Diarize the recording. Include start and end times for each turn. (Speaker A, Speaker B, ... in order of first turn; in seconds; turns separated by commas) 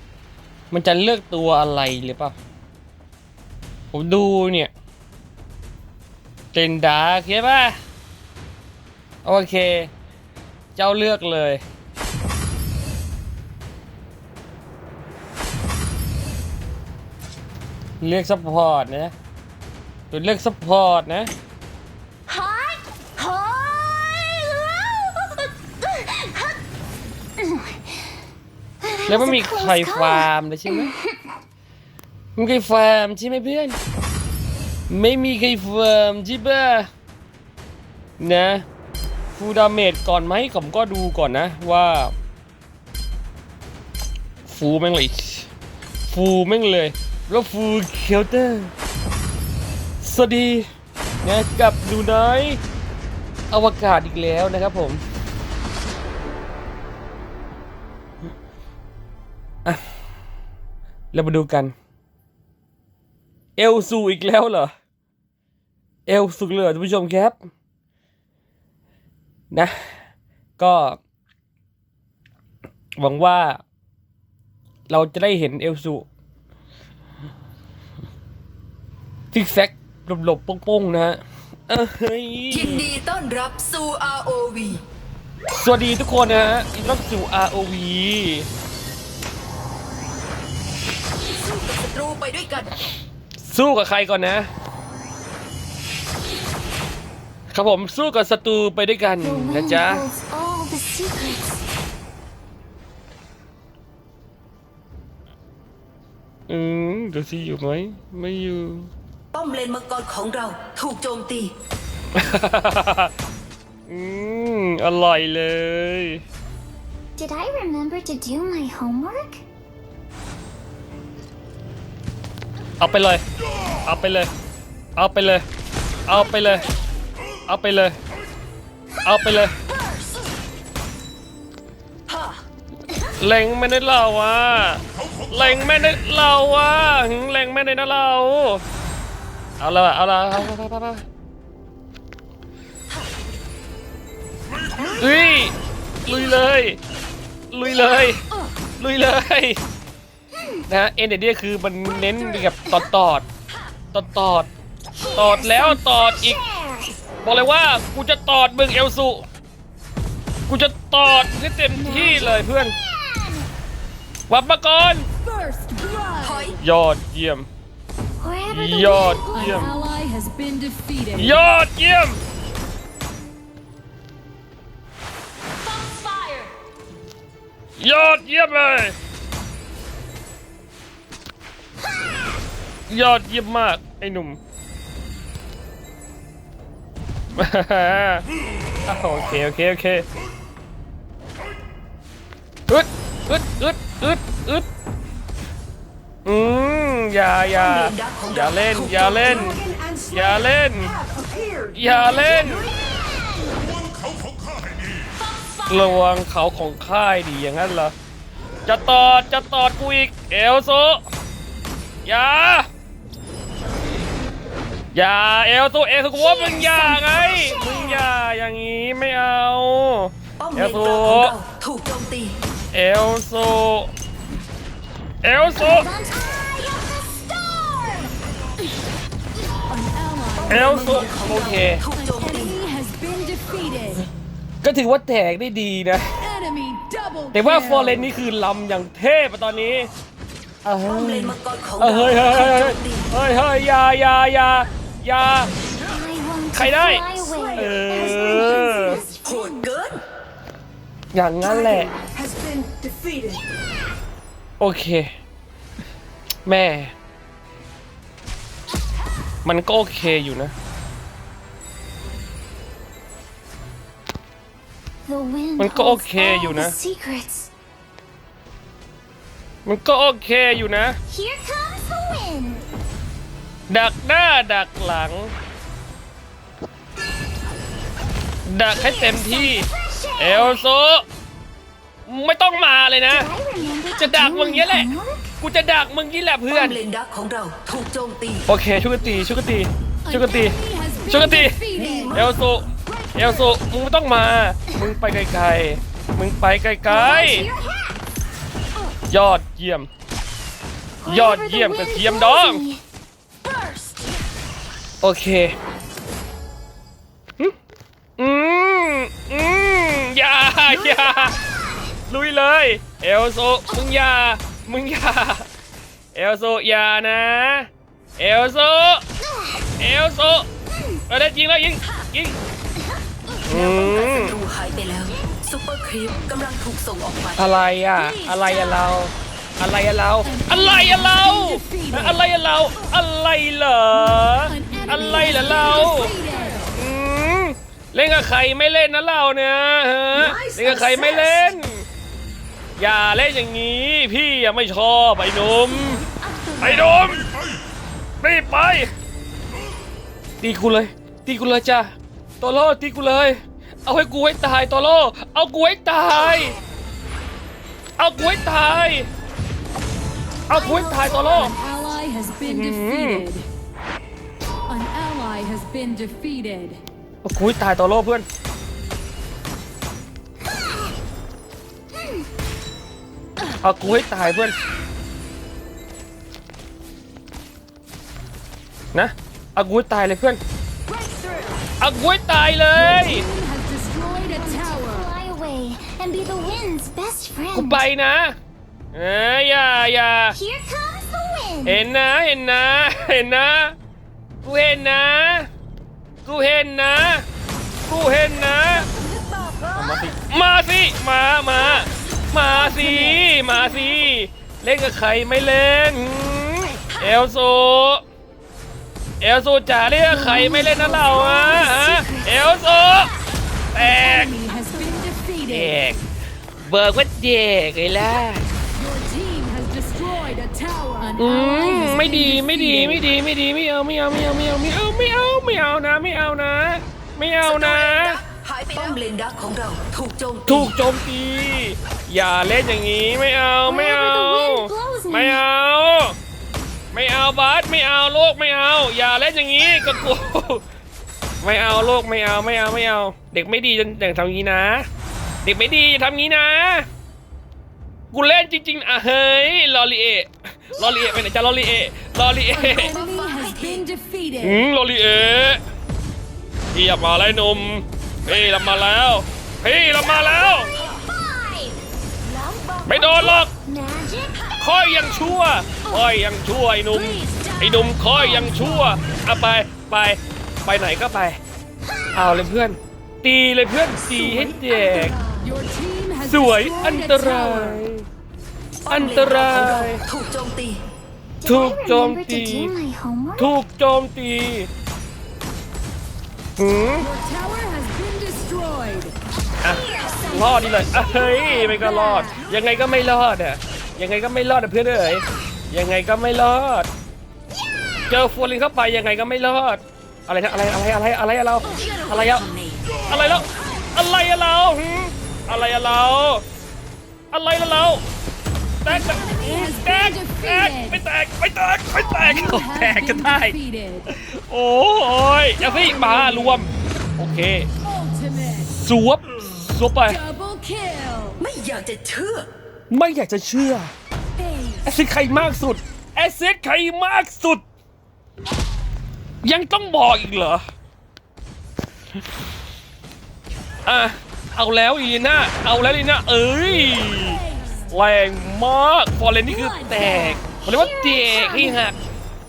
Speaker A: 0.7-2.3, Speaker A: 3.9-4.7, Speaker A: 6.5-7.8, Speaker A: 9.2-9.9, Speaker A: 10.8-11.6, Speaker A: 18.0-19.1, Speaker A: 20.1-21.3, Speaker B: 22.3-26.6, Speaker B: 27.4-28.2, Speaker B: 28.8-31.4, Speaker A: 29.1-30.9, Speaker A: 32.4-33.8, Speaker A: 34.9-36.9, Speaker A: 38.2-38.6, Speaker A: 39.4-42.1, Speaker A: 44.5-45.5, Speaker A: 46.1-48.7, Speaker A: 50.0-50.7, Speaker A: 51.2-52.6, Speaker A: 53.5-55.0, Speaker A: 61.1-61.7, Speaker A: 63.6-64.7, Speaker A: 66.1-67.3, Speaker A: 70.6-71.0, Speaker A: 73.0-73.6, Speaker A: 74.9-76.0, Speaker A: 79.3-82.9, Speaker C: 82.5-84.8, Speaker A: 85.5-88.5, Speaker C: 91.3-92.9, Speaker A: 93.4-94.5, Speaker A: 97.5-100.0, Speaker B: 99.2-101.6, Speaker A: 106.5-108.9, Speaker C: 109.3-111.5, Speaker A: 112.1-113.1, Speaker A: 113.9-116.2, Speaker B: 117.2-119.4, Speaker A: 122.8-123.2, Speaker A: 123.8-124.3, Speaker A: 125.0-125.4, Speaker A: 126.1-126.7, Speaker A: 127.5-128.0, Speaker A: 129.0-129.5, Speaker C: 129.7-130.3, Speaker C: 132.1-132.4, Speaker A: 133.2-138.6, Speaker A: 139.6-141.0, Speaker A: 144.9-146.8, Speaker A: 147.5-148.2, Speaker A: 148.8-149.6, Speaker A: 150.7-153.2, Speaker A: 153.9-154.5, Speaker B: 154.9-157.0, Speaker A: 155.1-156.4, Speaker A: 157.2-159.2, Speaker A: 160.5-162.7, Speaker B: 161.7-163.5, Speaker A: 164.3-165.1, Speaker B: 165.3-166.2, Speaker D: 165.6-165.9, Speaker C: 166.2-166.6, Speaker A: 166.6-167.5, Speaker B: 168.2-170.0, Speaker A: 168.5-169.7, Speaker D: 169.3-171.3, Speaker A: 171.2-172.2, Speaker B: 175.7-176.5, Speaker A: 177.8-178.9, Speaker A: 182.9-184.4, Speaker A: 187.3-188.2, Speaker A: 188.8-190.1, Speaker A: 192.7-194.7, Speaker A: 196.2-201.0, Speaker C: 197.5-199.9, Speaker A: 201.7-202.7, Speaker B: 202.0-203.7, Speaker B: 205.4-205.8, Speaker A: 205.7-207.9, Speaker A: 208.7-211.0, Speaker A: 212.0-212.7, Speaker A: 214.9-221.4, Speaker B: 216.1-218.1, Speaker C: 220.4-222.4, Speaker A: 222.7-223.9, Speaker A: 225.2-225.9, Speaker B: 225.6-228.2, Speaker D: 229.7-231.0, Speaker C: 230.4-232.7, Speaker A: 230.5-231.8, Speaker D: 232.7-234.0, Speaker A: 234.6-236.1, Speaker D: 236.2-238.1, Speaker A: 237.3-239.9, Speaker A: 240.6-245.5, Speaker C: 240.8-243.1, Speaker B: 245.8-249.7, Speaker A: 246.5-249.0, Speaker C: 249.2-250.0, Speaker A: 251.1-252.0, Speaker A: 254.6-255.1, Speaker A: 256.4-256.9, Speaker A: 259.4-260.5, Speaker B: 265.0-267.5, Speaker A: 265.6-266.8, Speaker A: 269.6-271.0, Speaker B: 271.1-272.7, Speaker A: 273.7-275.3, Speaker A: 278.4-281.0, Speaker B: 278.6-280.6, Speaker A: 282.1-283.3, Speaker B: 283.1-285.3, Speaker A: 283.9-286.8, Speaker C: 286.5-288.4, Speaker A: 288.5-297.5, Speaker D: 290.1-292.1, Speaker C: 291.8-292.2, Speaker B: 291.8-292.2, Speaker B: 292.9-293.6, Speaker B: 296.9-298.0, Speaker A: 299.1-299.9, Speaker B: 301.0-302.8, Speaker A: 301.1-302.6, Speaker B: 303.4-304.2, Speaker A: 305.0-305.6, Speaker A: 308.2-311.4, Speaker B: 310.8-311.3, Speaker A: 312.1-315.4, Speaker A: 316.1-319.0, Speaker A: 319.8-320.5, Speaker A: 321.1-322.4, Speaker A: 323.4-324.4, Speaker C: 323.5-327.6, Speaker A: 327.4-336.1, Speaker D: 330.3-332.1, Speaker D: 334.5-336.6, Speaker A: 336.7-341.9, Speaker B: 340.1-341.4, Speaker A: 342.8-346.0, Speaker B: 345.9-347.1, Speaker A: 346.6-347.3, Speaker A: 348.2-348.9, Speaker A: 350.4-356.6, Speaker A: 358.0-359.1, Speaker A: 360.5-361.6, Speaker B: 360.5-362.1, Speaker D: 361.6-363.5, Speaker A: 362.4-363.3, Speaker D: 364.7-366.8, Speaker A: 367.2-368.3, Speaker A: 373.6-374.6, Speaker A: 378.9-380.4, Speaker B: 380.9-381.7, Speaker A: 381.8-383.3, Speaker D: 382.8-383.9, Speaker B: 383.4-387.9, Speaker A: 387.5-388.4, Speaker A: 388.9-390.4, Speaker B: 390.3-391.9, Speaker A: 391.6-393.8, Speaker A: 394.4-395.5, Speaker A: 396.2-397.2, Speaker A: 397.9-398.9, Speaker C: 399.0-400.1, Speaker A: 399.7-408.0, Speaker B: 402.4-403.9, Speaker A: 409.2-413.1, Speaker B: 410.1-412.6, Speaker A: 413.7-414.4, Speaker D: 413.9-415.7, Speaker B: 414.5-415.3, Speaker A: 415.5-416.0, Speaker A: 416.6-418.4, Speaker D: 418.8-423.0, Speaker A: 421.2-428.2, Speaker C: 427.4-430.7, Speaker A: 430.4-436.1, Speaker B: 433.6-435.4, Speaker A: 436.9-440.6, Speaker A: 441.4-444.9, Speaker A: 445.4-446.9, Speaker A: 448.1-452.9, Speaker C: 452.5-453.9, Speaker D: 453.0-454.6, Speaker A: 454.4-455.6, Speaker A: 456.7-460.8, Speaker B: 459.8-461.8, Speaker C: 462.2-463.2, Speaker A: 462.8-463.5, Speaker B: 463.1-464.5, Speaker A: 464.6-471.4, Speaker B: 466.9-469.0, Speaker A: 472.1-475.2, Speaker B: 475.1-475.6, Speaker D: 475.4-477.8, Speaker A: 476.2-478.1, Speaker C: 478.9-480.8, Speaker A: 478.9-480.0, Speaker B: 481.4-483.6, Speaker A: 481.4-482.8, Speaker A: 483.4-484.7, Speaker A: 486.6-487.1, Speaker D: 487.1-489.1, Speaker A: 489.6-496.9, Speaker B: 489.6-491.9, Speaker D: 491.4-492.4, Speaker A: 498.1-502.5, Speaker C: 501.7-503.1, Speaker A: 503.1-506.4, Speaker A: 507.3-508.0, Speaker A: 508.8-517.7, Speaker D: 508.9-511.0, Speaker D: 512.1-514.0, Speaker D: 515.6-516.5, Speaker D: 517.9-518.7, Speaker A: 518.7-520.2, Speaker D: 520.1-521.4, Speaker C: 521.4-522.5, Speaker A: 522.9-523.9, Speaker A: 524.8-527.6, Speaker A: 529.4-530.6, Speaker A: 533.8-542.0, Speaker D: 539.5-540.3, Speaker B: 539.9-541.8